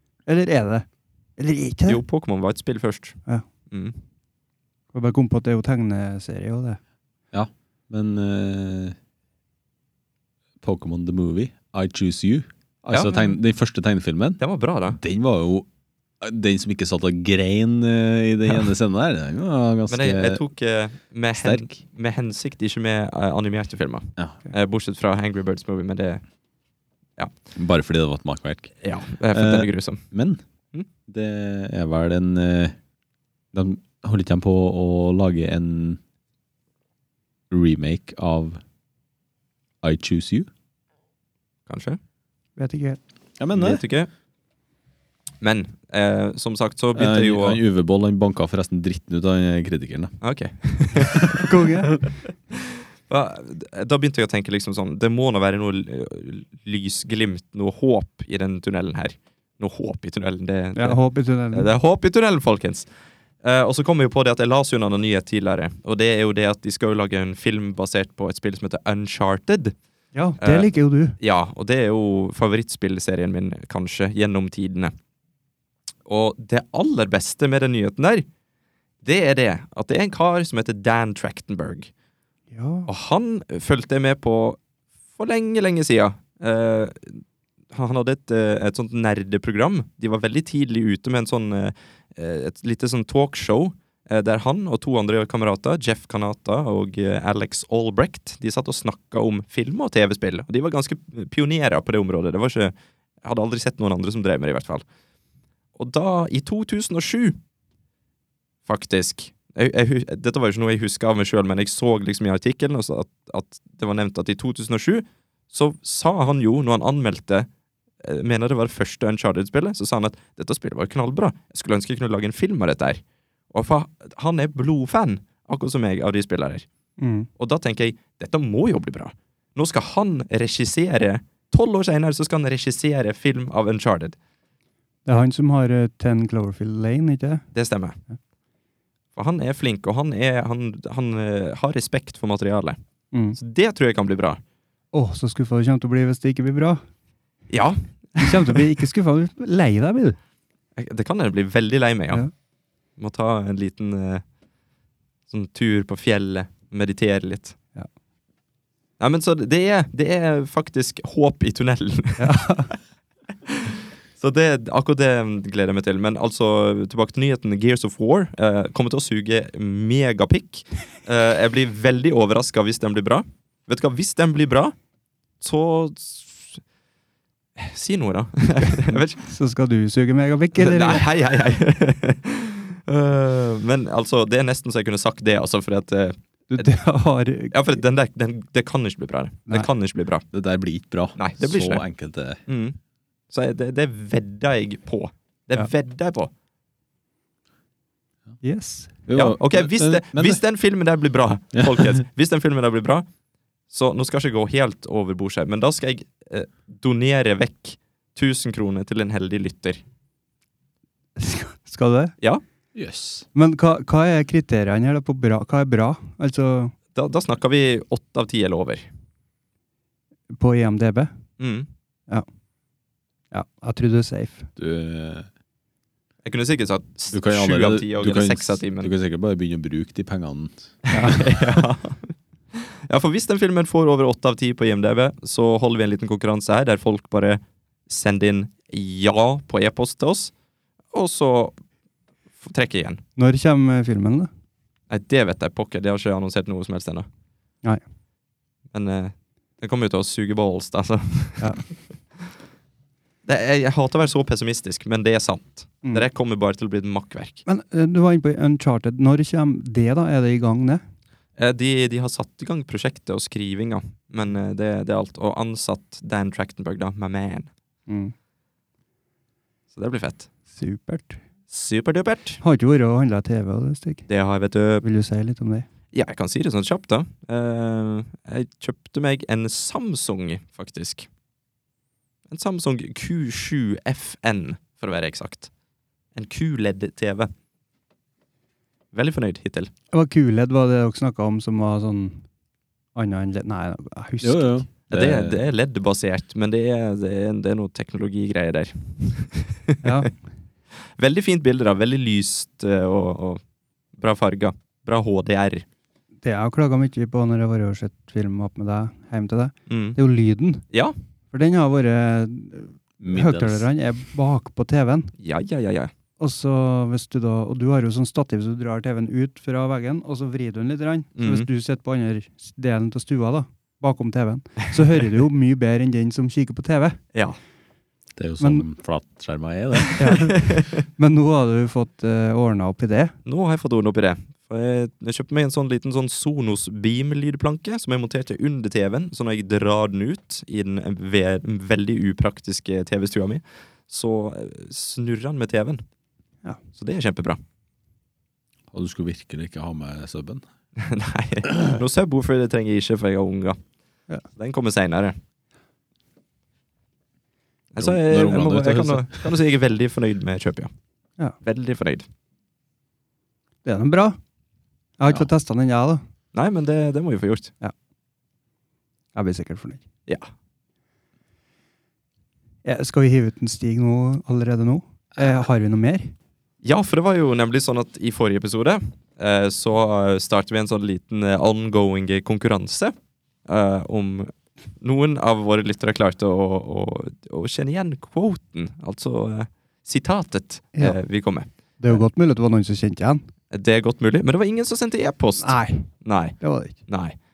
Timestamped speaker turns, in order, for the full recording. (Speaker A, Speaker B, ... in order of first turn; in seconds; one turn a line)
Speaker A: 0.3-0.9
Speaker A: 1.4-2.0
Speaker B: 1.9-3.2
Speaker B: 3.7-4.0
Speaker A: 4.9-6.8
Speaker C: 7.3-9.0
Speaker C: 10.6-15.7
Speaker B: 12.9-13.4
Speaker B: 14.4-15.0
Speaker C: 16.2-20.4
Speaker B: 19.9-26.2
Speaker C: 21.3-21.8
Speaker C: 27.6-28.7
Speaker B: 28.8-30.0
Speaker C: 29.3-30.4
Speaker C: 31.1-32.8
Speaker C: 33.5-36.0
Speaker C: 37.5-38.6
Speaker C: 39.8-40.5
Speaker B: 41.7-42.0
Speaker A: 42.6-43.0
Speaker C: 43.4-43.8
Speaker B: 43.5-44.1
Speaker B: 45.4-47.6
Speaker C: 47.0-50.1
Speaker B: 50.2-51.5
Speaker A: 51.3-51.9
Speaker B: 52.5-61.0
Speaker A: 60.8-61.7
Speaker B: 61.5-62.9
Speaker B: 63.4-69.8
Speaker A: 70.2-71.2
Speaker B: 70.4-74.9
Speaker B: 76.1-78.3
Speaker B: 79.0-81.9
Speaker A: 82.5-82.9
Speaker B: 82.9-84.6
Speaker B: 85.2-104.8
Speaker B: 105.8-107.4
Speaker B: 108.7-117.5
Speaker B: 118.0-126.7
Speaker A: 127.0-127.3
Speaker B: 127.4-134.2
Speaker A: 135.1-137.4
Speaker B: 137.5-138.0
Speaker B: 139.2-142.8
Speaker B: 143.4-144.4
Speaker A: 144.9-146.8
Speaker B: 147.5-148.6
Speaker A: 148.2-150.2
Speaker B: 150.8-152.2
Speaker B: 153.0-154.2
Speaker B: 155.3-157.6
Speaker B: 159.0-162.4
Speaker A: 162.2-162.7
Speaker B: 163.5-174.7
Speaker B: 175.4-176.6
Speaker B: 177.6-179.2
Speaker A: 178.6-181.1
Speaker B: 180.6-186.7
Speaker A: 186.5-187.6
Speaker B: 187.5-190.2
Speaker C: 190.3-192.4
Speaker B: 191.2-191.8
Speaker B: 192.5-192.8
Speaker B: 193.3-196.3
Speaker A: 198.4-199.0
Speaker C: 199.1-200.4
Speaker B: 199.1-203.1
Speaker C: 201.5-202.0
Speaker B: 203.7-209.8
Speaker A: 211.2-212.1
Speaker C: 212.8-213.3
Speaker A: 213.3-216.7
Speaker B: 216.9-218.9
Speaker A: 220.3-221.1
Speaker B: 221.4-221.7
Speaker A: 223.3-224.5
Speaker C: 224.6-225.3
Speaker B: 226.2-228.9
Speaker C: 227.1-231.2
Speaker B: 230.9-240.3
Speaker A: 230.9-231.2
Speaker B: 240.9-241.6
Speaker B: 242.4-243.0
Speaker A: 243.2-244.3
Speaker B: 244.9-247.1
Speaker B: 248.7-251.7
Speaker B: 253.2-257.4
Speaker A: 257.5-260.8
Speaker B: 261.4-267.5
Speaker A: 267.9-268.1
Speaker B: 269.7-270.3
Speaker A: 270.5-271.2
Speaker B: 271.5-272.4
Speaker A: 272.4-274.1
Speaker B: 274.1-274.8
Speaker A: 274.8-275.7
Speaker B: 275.9-281.1
Speaker B: 282.3-285.5
Speaker B: 286.1-287.3
Speaker B: 288.9-289.7
Speaker A: 289.9-292.2
Speaker A: 292.9-294.6
Speaker C: 294.2-295.4
Speaker B: 294.9-300.1
Speaker A: 299.8-300.1
Speaker B: 301.0-303.4
Speaker B: 304.0-305.6
Speaker A: 306.2-310.6
Speaker B: 309.7-310.0
Speaker A: 311.3-315.1
Speaker C: 313.0-313.7
Speaker B: 315.2-315.9
Speaker A: 316.2-327.0
Speaker B: 321.2-321.5
Speaker C: 328.2-330.0
Speaker A: 328.4-328.7
Speaker B: 329.9-330.8
Speaker A: 330.0-333.2
Speaker B: 333.3-345.8
Speaker B: 346.8-347.4
Speaker C: 348.7-350.4
Speaker B: 350.8-353.6
Speaker B: 354.4-355.2
Speaker B: 357.7-360.7
Speaker C: 357.8-359.3
Speaker B: 361.4-362.1
Speaker A: 363.6-364.2
Speaker A: 365.0-366.0
Speaker B: 366.3-367.5
Speaker A: 369.1-369.8
Speaker A: 372.6-376.1
Speaker B: 376.6-382.9
Speaker B: 383.5-392.0
Speaker A: 391.8-393.2
Speaker B: 393.5-396.4
Speaker A: 395.4-395.9
Speaker A: 396.4-396.8
Speaker B: 396.9-397.1